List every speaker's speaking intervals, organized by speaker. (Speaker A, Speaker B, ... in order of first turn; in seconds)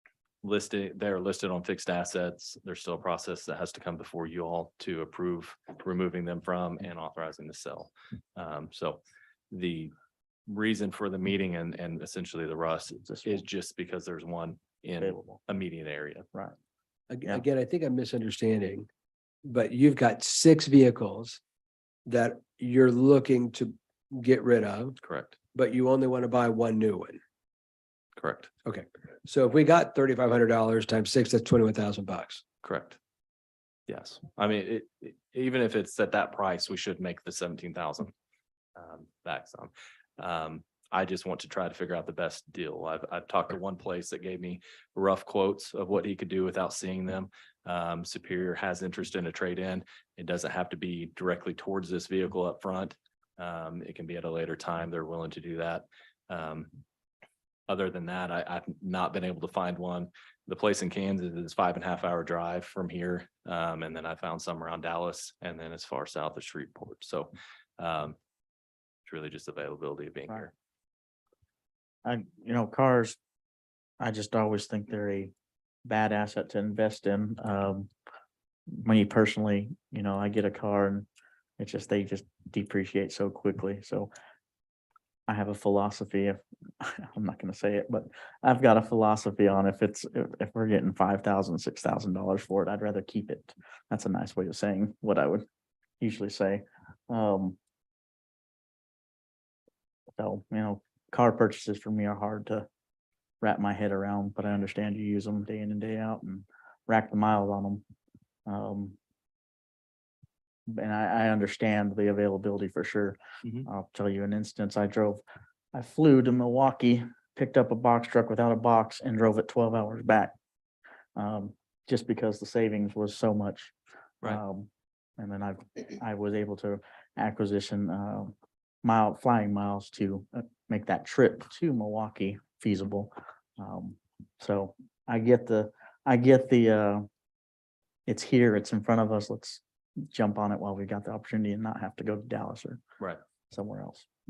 Speaker A: 0.4-9.9, 10.5-16.3, 25.0-25.4, 28.2-28.5, 32.6-33.0, 33.9-38.1, 38.8-56.7, 57.7-68.2, 69.1-70.5
Speaker B: 13.1-13.5, 15.0-15.4, 72.0-73.2, 74.0-75.3, 75.8-77.9, 78.7-81.1, 81.6-84.1, 85.3-95.5, 96.0-97.6, 100.2-102.7, 103.4-107.8, 108.5-109.0, 110.7-115.2, 115.7-120.3, 121.2-137.1, 138.1-142.8, 143.5-144.1
Speaker C: 17.1-18.9, 19.4-21.4, 22.1-24.9, 25.5-27.2, 28.7-32.4